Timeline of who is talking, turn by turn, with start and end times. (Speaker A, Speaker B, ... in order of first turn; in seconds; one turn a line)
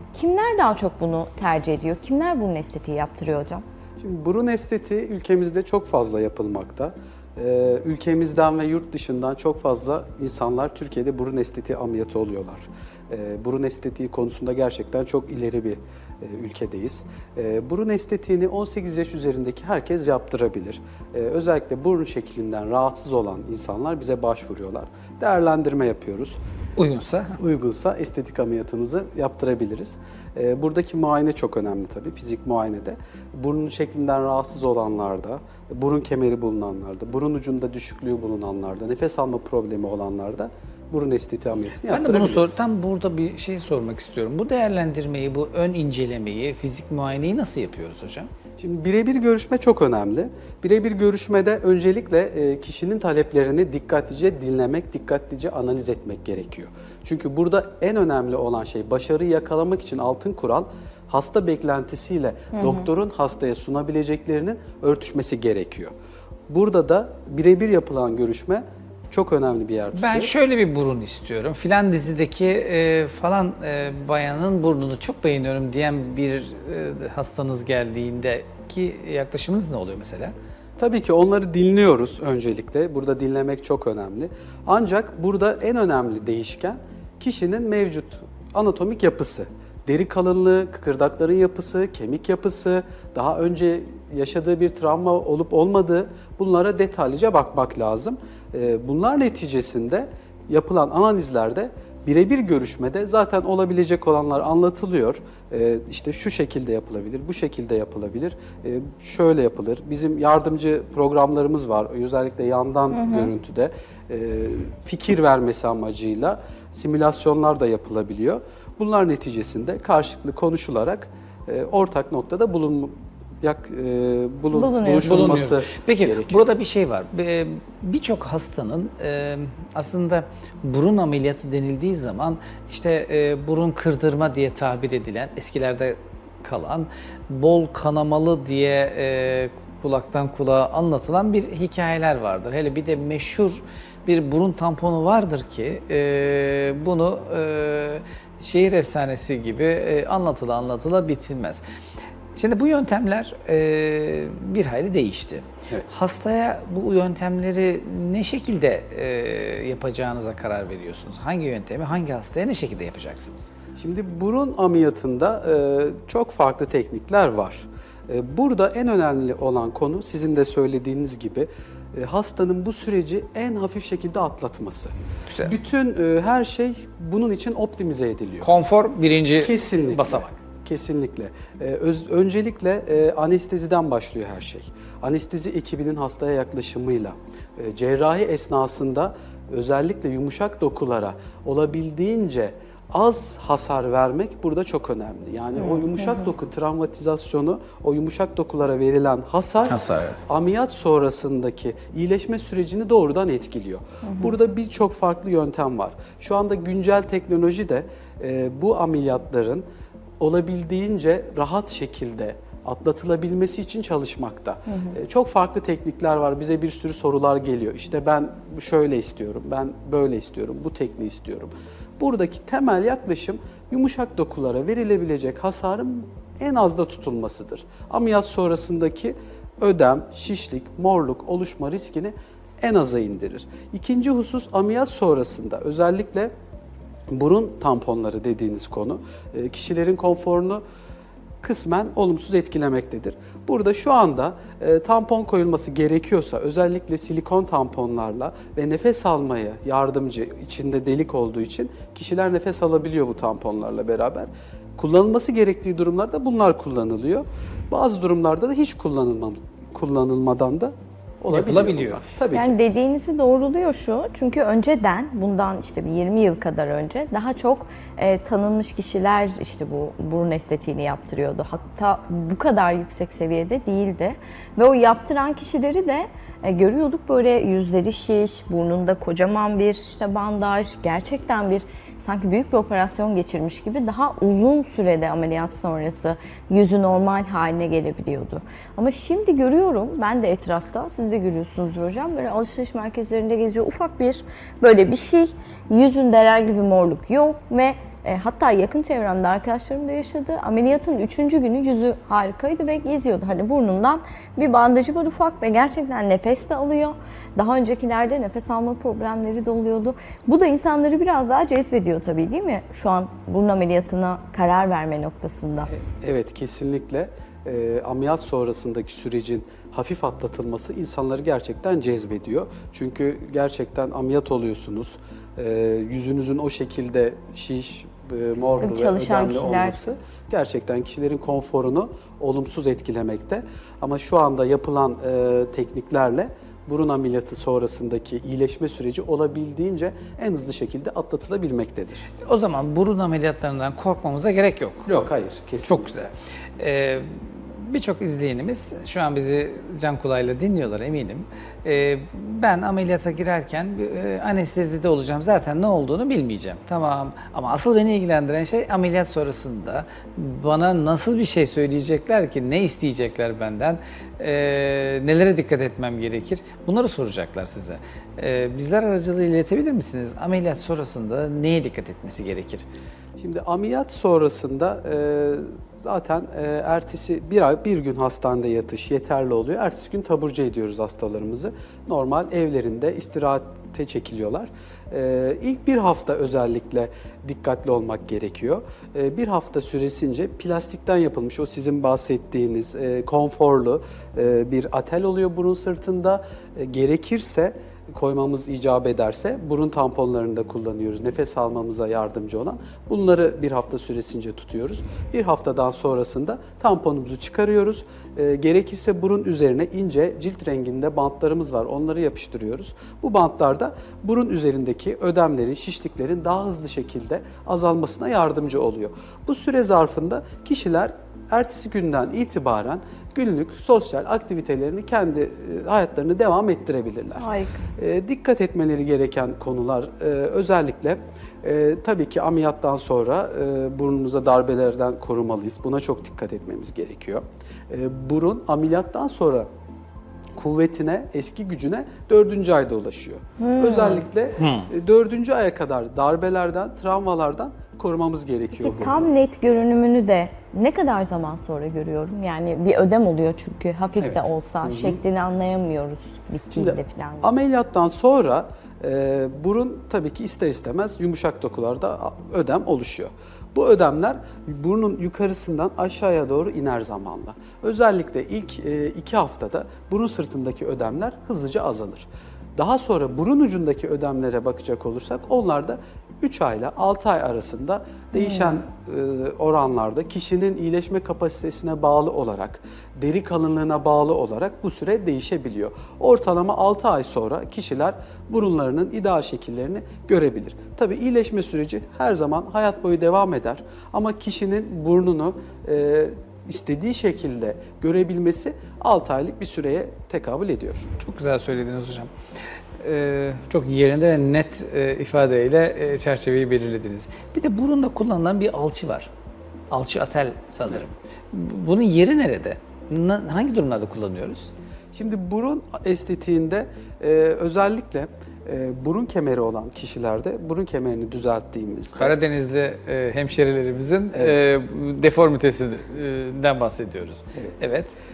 Speaker A: 0.1-3.6
Speaker B: 4.0-26.4
Speaker C: 26.8-27.4
Speaker B: 27.4-42.6
Speaker C: 41.9-48.3
Speaker B: 48.6-65.9
Speaker A: 62.5-62.8
Speaker B: 66.5-70.3
Speaker C: 70.0-80.3
Speaker B: 80.8-126.4
Speaker A: 112.9-113.3
Speaker A: 124.5-125.4
Speaker C: 125.0-151.6
Speaker C: 152.4-163.4
Speaker B: 163.8-178.5
Speaker C: 178.4-180.3
Speaker B: 179.4-209.6
Speaker A: 195.6-196.2
Speaker C: 199.7-200.2
Speaker A: 204.0-204.3
Speaker B: 210.2-236.3
Speaker A: 214.7-214.9
Speaker B: 237.1-240.6
Speaker B: 241.4-262.6
Speaker C: 261.3-262.0
Speaker A: 262.3-315.7
Speaker B: 315.7-342.1
Speaker A: 328.6-329.8
Speaker C: 342.2-345.0
Speaker B: 344.9-346.1
Speaker C: 345.6-372.6
Speaker B: 373.2-439.5
Speaker A: 427.2-427.6
Speaker B: 440.4-449.1
Speaker A: 443.4-444.1
Speaker C: 444.4-444.7
Speaker A: 448.6-457.3
Speaker B: 454.0-455.0
Speaker B: 456.5-500.9
Speaker A: 478.2-478.6
Speaker C: 501.0-502.1
Speaker C: 502.8-509.1
Speaker C: 509.7-514.5
Speaker B: 514.9-522.1
Speaker C: 522.0-528.0
Speaker B: 524.1-524.4